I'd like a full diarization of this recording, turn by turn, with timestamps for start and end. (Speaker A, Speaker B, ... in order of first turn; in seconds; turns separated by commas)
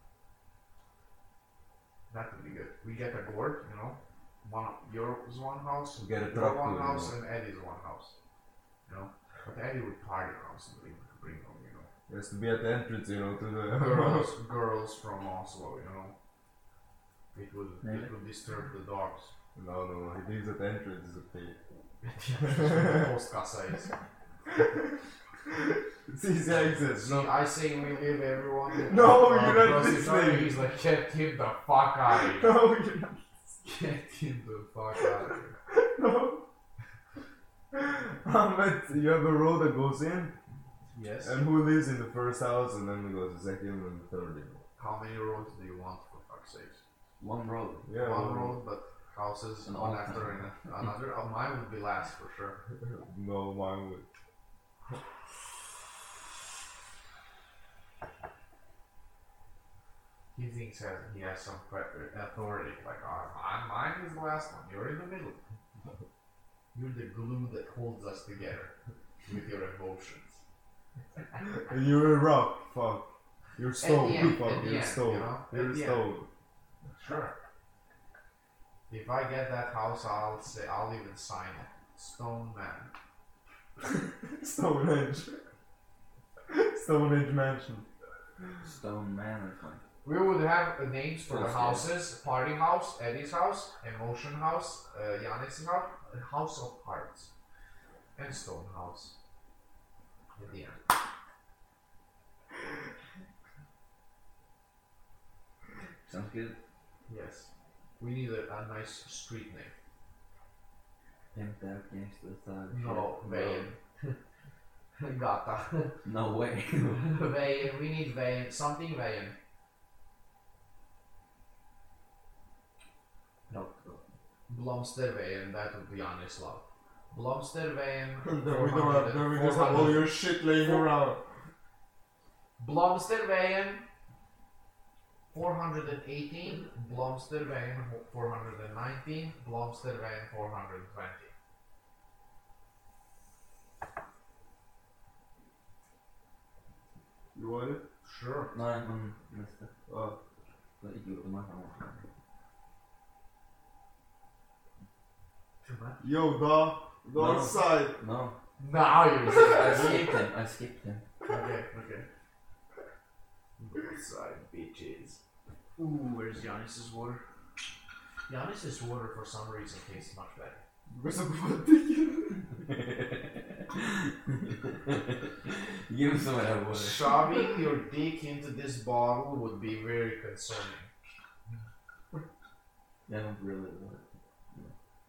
Speaker A: 2.1-8.2, Speaker B: 6.0-7.2, Speaker A: 8.9-11.9, Speaker B: 12.1-14.3, Speaker A: 13.7-16.1, Speaker A: 17.3-19.3, Speaker C: 17.8-18.1, Speaker B: 19.6-21.6, Speaker A: 22.0-23.9, Speaker B: 22.5-23.1, Speaker B: 24.5-27.3, Speaker A: 26.5-32.6, Speaker B: 28.7-30.6, Speaker B: 32.1-33.3, Speaker A: 33.6-35.5, Speaker B: 35.7-36.4, Speaker B: 37.7-40.4, Speaker A: 40.9-41.4, Speaker B: 41.2-44.6, Speaker A: 44.8-46.8, Speaker C: 47.2-47.8, Speaker B: 47.9-48.6, Speaker A: 48.0-52.6, Speaker C: 49.6-50.4, Speaker B: 52.9-54.1, Speaker A: 60.4-65.4, Speaker A: 66.7-70.4, Speaker B: 71.4-76.3, Speaker A: 73.8-76.1, Speaker A: 77.0-77.4, Speaker A: 78.9-82.9, Speaker B: 84.2-85.4, Speaker B: 86.5-87.9, Speaker C: 88.6-89.8, Speaker A: 90.0-97.3, Speaker C: 91.3-91.9, Speaker A: 98.2-99.2, Speaker A: 100.4-100.8, Speaker C: 106.1-106.6, Speaker A: 107.1-109.7, Speaker C: 111.3-113.7, Speaker A: 112.7-114.2, Speaker A: 115.0-116.0, Speaker C: 116.0-117.0, Speaker A: 116.9-119.4, Speaker C: 123.5-124.0, Speaker A: 124.5-130.8, Speaker B: 128.2-131.2, Speaker A: 132.6-133.8, Speaker A: 135.3-141.3, Speaker B: 147.3-147.8, Speaker A: 148.0-148.6, Speaker C: 148.5-149.7, Speaker B: 149.9-150.2, Speaker C: 150.8-152.1, Speaker A: 155.6-156.0, Speaker B: 156.0-158.0, Speaker C: 157.2-158.3, Speaker A: 158.6-160.1, Speaker C: 159.2-161.0, Speaker A: 161.3-162.1, Speaker A: 163.6-165.2, Speaker A: 165.8-167.2, Speaker A: 168.3-170.6, Speaker B: 170.9-172.5, Speaker C: 172.6-177.3, Speaker A: 176.7-180.9, Speaker C: 183.1-184.7